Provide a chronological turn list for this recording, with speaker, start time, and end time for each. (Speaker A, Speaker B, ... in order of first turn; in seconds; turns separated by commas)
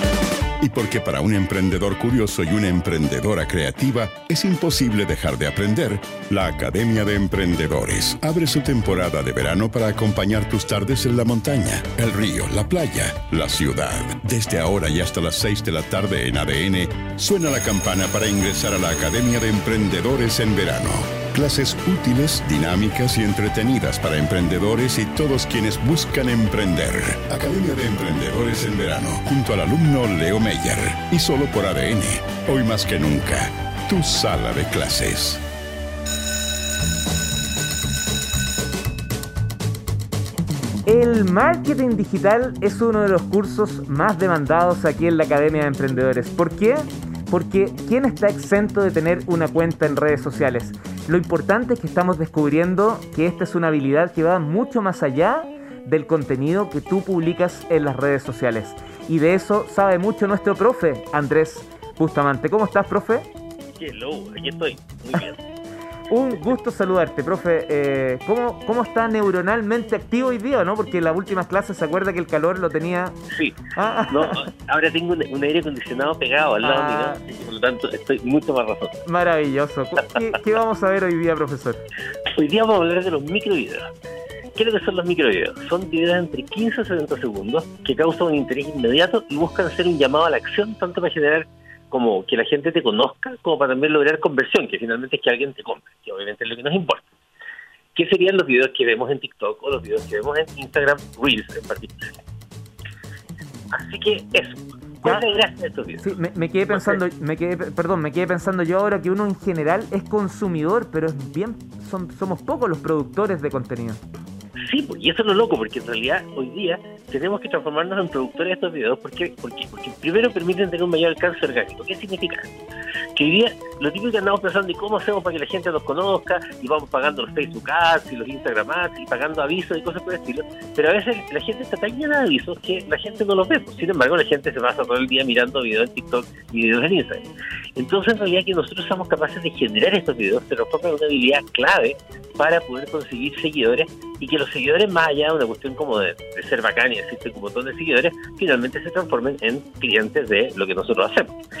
Speaker A: 0.6-35.4, Speaker B: 40.9-63.2, Speaker C: 63.8-65.4, Speaker B: 66.1-73.2, Speaker B: 73.7-74.5, Speaker C: 74.1-79.0, Speaker B: 76.6-77.2, Speaker B: 79.0-81.8, Speaker C: 82.3-83.9, Speaker C: 84.5-97.1, Speaker C: 97.9-102.1, Speaker C: 103.7-106.1, Speaker B: 106.0-114.0, Speaker C: 106.7-107.0, Speaker C: 114.7-122.5, Speaker C: 123.2-151.3